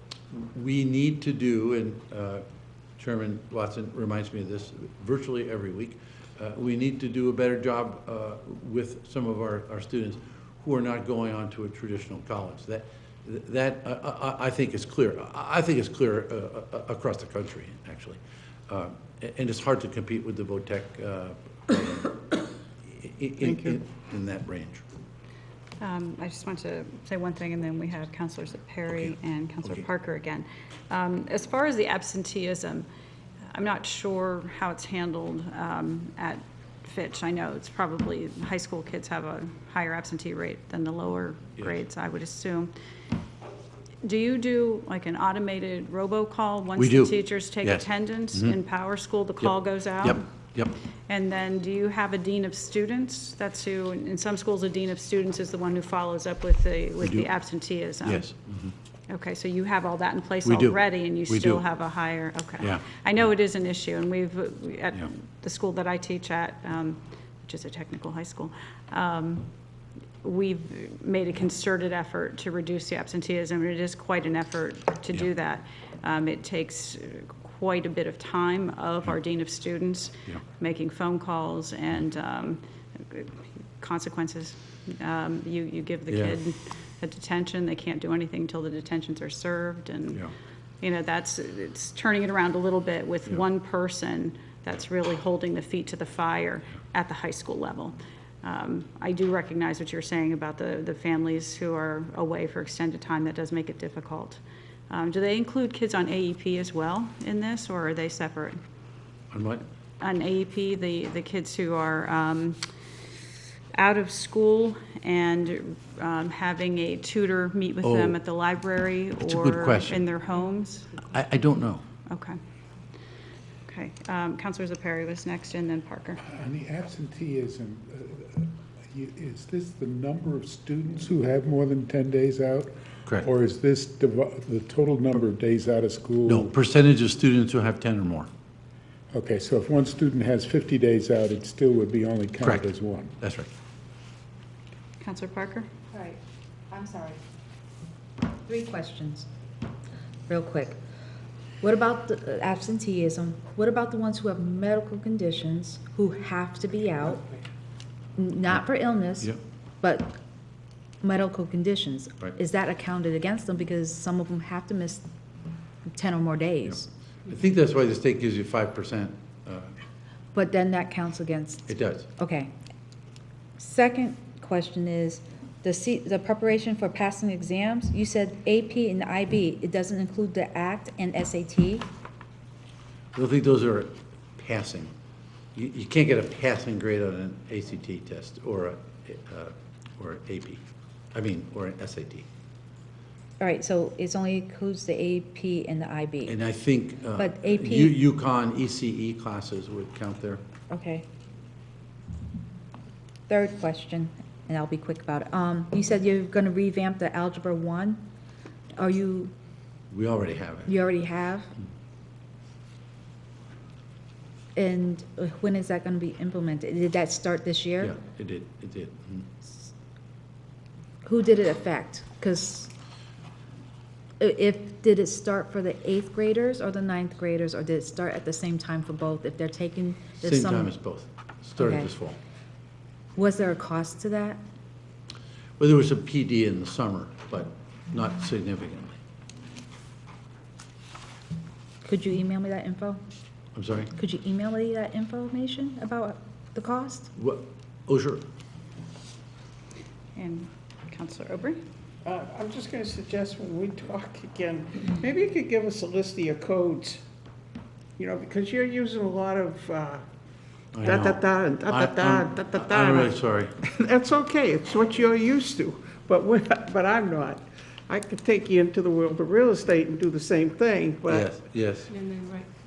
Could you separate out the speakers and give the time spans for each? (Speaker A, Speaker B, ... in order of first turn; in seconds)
Speaker A: 0.3-2.4, 3.0-22.2, 22.8-24.8, 46.8-48.5, 49.4-50.7, 57.0-57.3, 58.0-58.7, 60.4-61.6, 86.1-86.4, 109.3-109.6, 117.8-118.2, 119.2-120.0, 121.1-121.8, 136.3-138.3, 142.4-142.7, 143.2-143.5, 167.2-169.7, 171.7-172.1, 183.1-184.9, 185.5-190.6, 191.1-192.3, 196.3-200.4, 209.9-210.8, 217.8-219.3, 230.2-232.2, 235.6-239.0, 243.5-243.9, 247.2-248.2, 260.7-263.5, 271.1-272.0
Speaker B: 25.8-32.9, 33.5-42.7, 44.0-50.2, 51.1-58.3, 59.1-69.5, 70.2-90.2, 90.8-108.6, 110.0-112.6, 113.7-121.0, 122.1-122.4, 123.7-126.2, 145.0-145.7, 250.1-251.6
Speaker C: 126.2-136.5, 139.1-143.2
Speaker D: 145.9-146.2, 146.7-147.2, 148.4-149.3, 150.3-150.8, 151.6-157.2, 158.2-160.2, 161.0-165.0, 165.8-166.9, 170.3-172.5, 173.6-181.9, 193.4-196.4, 197.2-198.0, 200.7-201.1, 203.3-208.0, 208.8-209.3, 210.7-211.5, 214.6-217.9, 219.4-219.7, 221.0-222.7, 224.2-230.7, 231.6-231.9, 233.2-234.4, 241.8-243.0, 243.9-247.1
Speaker E: 252.0-257.0, 258.0-260.0, 260.8-271.3